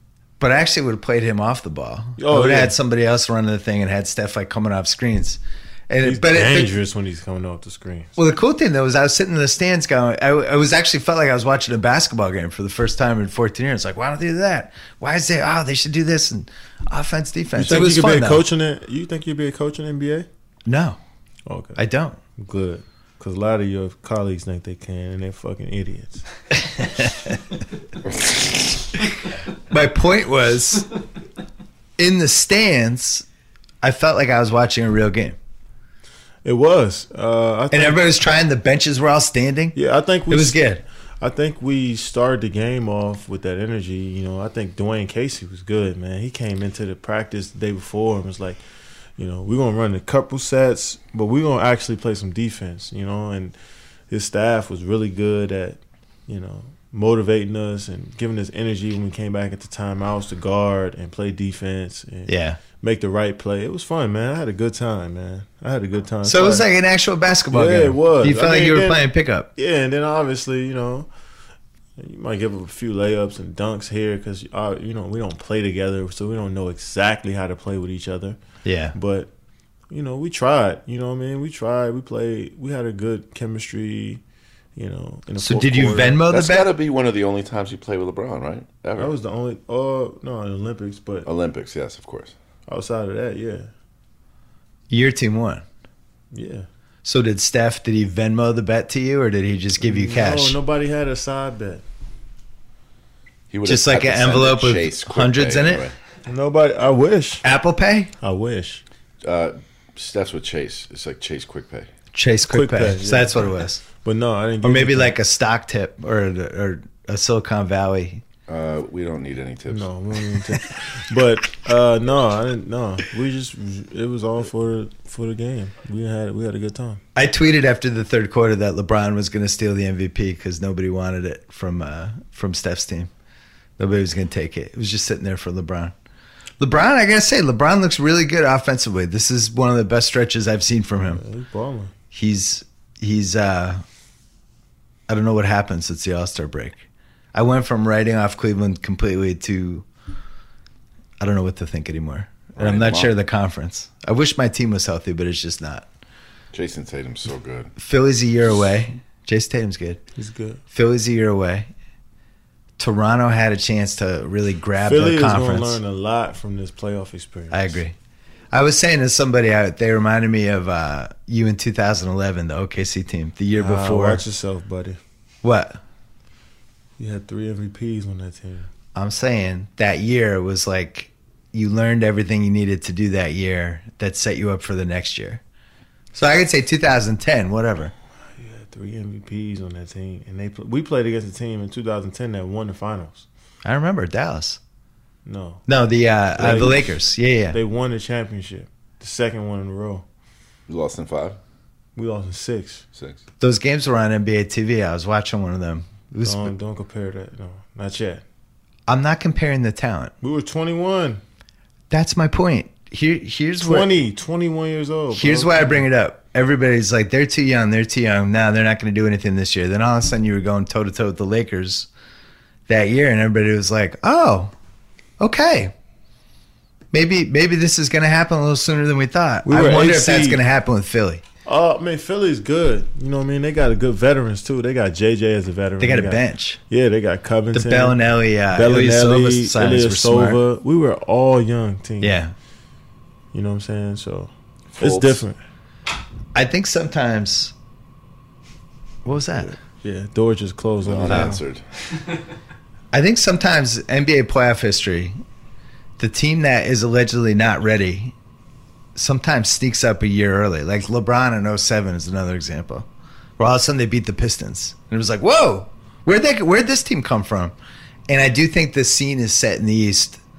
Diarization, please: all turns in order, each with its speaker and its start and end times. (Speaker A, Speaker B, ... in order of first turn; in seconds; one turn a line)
Speaker A: 0.4-6.7
Speaker B: 2.2-2.7
Speaker B: 6.0-8.1
Speaker A: 8.2-18.4
Speaker B: 17.6-20.3
Speaker A: 20.6-21.0
Speaker B: 21.4-21.8
Speaker A: 21.7-22.2
Speaker B: 22.4-26.2
Speaker A: 26.8-27.4
Speaker A: 29.7-30.9
Speaker A: 32.0-33.2
Speaker A: 33.8-35.3
Speaker B: 36.4-38.0
Speaker A: 37.7-39.8
Speaker B: 39.7-40.6
Speaker A: 40.3-40.8
Speaker B: 41.2-48.6
Speaker B: 49.2-53.5
Speaker B: 54.1-66.7
Speaker A: 62.3-62.6
Speaker A: 66.2-69.5
Speaker B: 67.5-69.0
Speaker B: 69.5-71.1
Speaker B: 72.0-78.4
Speaker A: 78.6-78.9
Speaker B: 78.9-79.3
Speaker B: 79.9-84.2
Speaker B: 84.8-86.2
Speaker A: 85.4-86.7
Speaker C: 86.3-89.1
Speaker B: 89.0-91.2
Speaker C: 91.2-92.3
Speaker B: 92.7-93.7
Speaker A: 94.9-95.6
Speaker B: 96.3-96.7
Speaker A: 97.0-100.6
Speaker B: 99.8-101.8
Speaker C: 103.5-105.9
Speaker A: 103.6-105.9
Speaker B: 106.3-107.4
Speaker A: 107.4-108.1
Speaker B: 108.2-108.8
Speaker C: 109.2-111.9
Speaker A: 112.1-113.8
Speaker B: 112.5-115.1
Speaker A: 114.6-118.2
Speaker C: 118.5-119.9
Speaker B: 119.7-127.0
Speaker A: 127.1-133.1
Speaker A: 133.8-135.9
Speaker A: 136.6-141.2
Speaker B: 141.1-141.9
Speaker A: 142.1-143.8
Speaker A: 145.1-146.8
Speaker A: 147.3-149.8
Speaker A: 151.2-155.8
Speaker C: 152.6-153.1
Speaker C: 156.5-157.7
Speaker A: 157.8-160.0
Speaker B: 160.2-160.6
Speaker A: 160.7-161.7
Speaker A: 162.8-165.8
Speaker B: 164.8-167.8
Speaker A: 167.5-167.9
Speaker A: 168.5-174.2
Speaker B: 173.5-175.0
Speaker A: 175.4-175.8
Speaker B: 177.0-178.7
Speaker A: 178.9-185.4
Speaker A: 186.1-187.9
Speaker B: 188.3-193.2
Speaker A: 193.6-194.6
Speaker B: 195.2-195.6
Speaker A: 195.7-197.6
Speaker B: 196.4-196.9
Speaker B: 197.5-200.0
Speaker C: 200.7-201.4
Speaker B: 201.9-202.8
Speaker A: 203.4-206.5
Speaker B: 206.2-208.2
Speaker A: 208.9-210.1
Speaker B: 210.2-211.2
Speaker A: 211.9-213.9
Speaker B: 213.6-215.8
Speaker A: 215.1-221.9
Speaker A: 222.7-224.5
Speaker A: 225.2-225.7
Speaker A: 226.9-231.2
Speaker B: 229.4-230.4
Speaker B: 231.4-238.0
Speaker A: 235.8-236.6
Speaker A: 237.5-240.4
Speaker B: 238.5-242.2
Speaker A: 242.0-242.3
Speaker B: 243.3-245.4
Speaker C: 244.8-245.2
Speaker A: 246.3-247.5
Speaker A: 249.0-249.6
Speaker B: 249.4-251.4
Speaker C: 250.8-251.6
Speaker A: 251.1-251.4
Speaker A: 252.9-255.2
Speaker A: 256.0-258.1
Speaker A: 258.9-262.9
Speaker A: 263.4-267.5
Speaker A: 268.1-270.2